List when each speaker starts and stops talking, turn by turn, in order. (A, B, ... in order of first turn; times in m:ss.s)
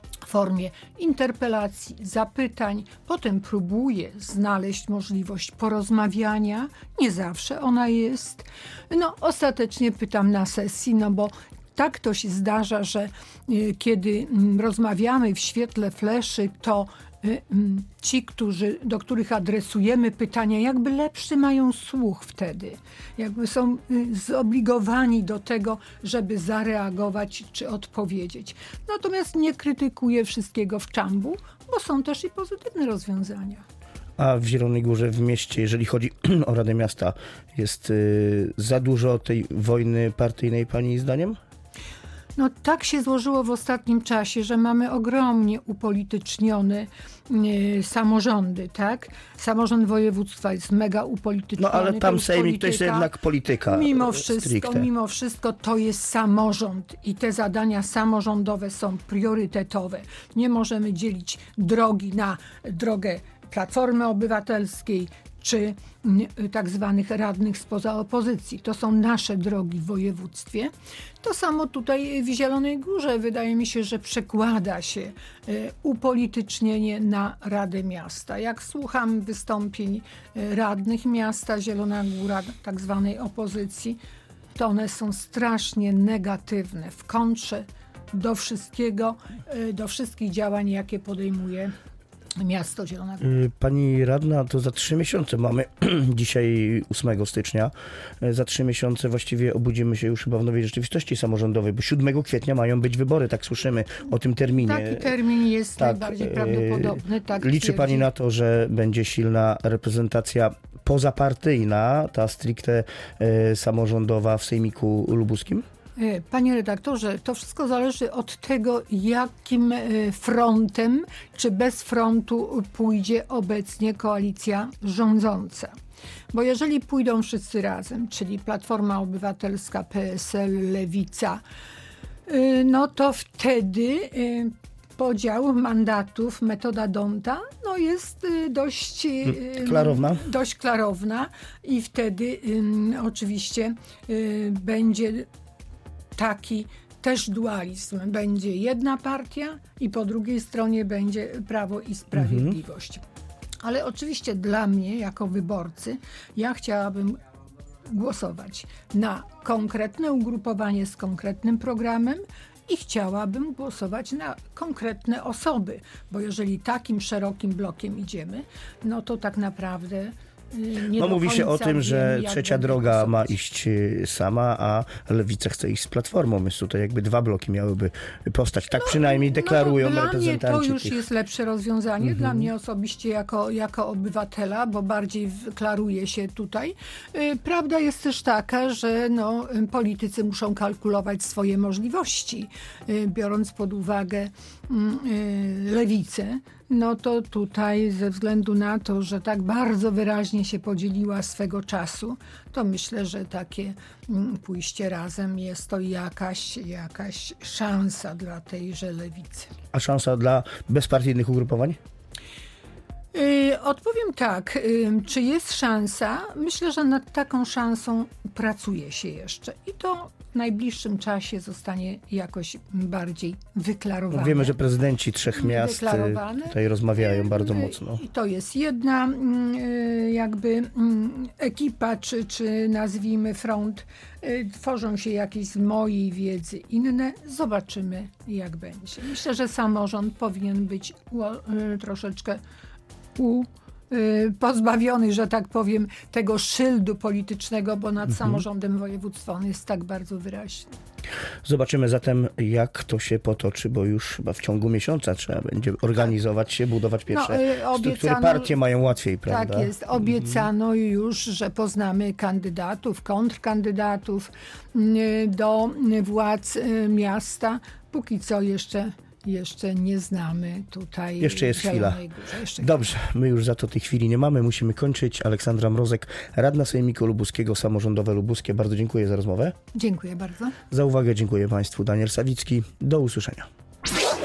0:00.2-0:33.6 A
0:34.2-0:41.4 B
0:42.4-0:53.1 A
0:51.6-0:54.9 B
0:53.7-1:24.0 A
1:24.6-1:31.7 A
1:32.4-1:33.4 A
1:33.2-1:45.1 B
1:44.6-1:48.1 A
1:45.8-1:55.6 B
1:56.0-2:05.7 A
2:06.3-2:11.4 A
2:12.3-2:25.3 A
2:19.3-2:20.2 B
2:26.2-2:33.0 A
2:32.2-2:32.4 B
2:33.6-2:37.2 A
2:37.9-2:53.3 A
2:51.0-3:01.0 B
2:58.7-3:29.5 A
3:02.0-3:02.5 B
3:29.7-3:31.8 B
3:33.1-3:44.6 A
3:44.1-3:48.0 B
3:45.3-4:02.4 A
4:03.2-4:10.7 A
4:11.4-4:19.7 B
4:17.1-4:18.6 A
4:19.3-4:32.8 A
4:31.2-4:32.0 B
4:32.6-4:39.5 B
4:39.7-4:40.6 A
4:40.7-4:43.5 B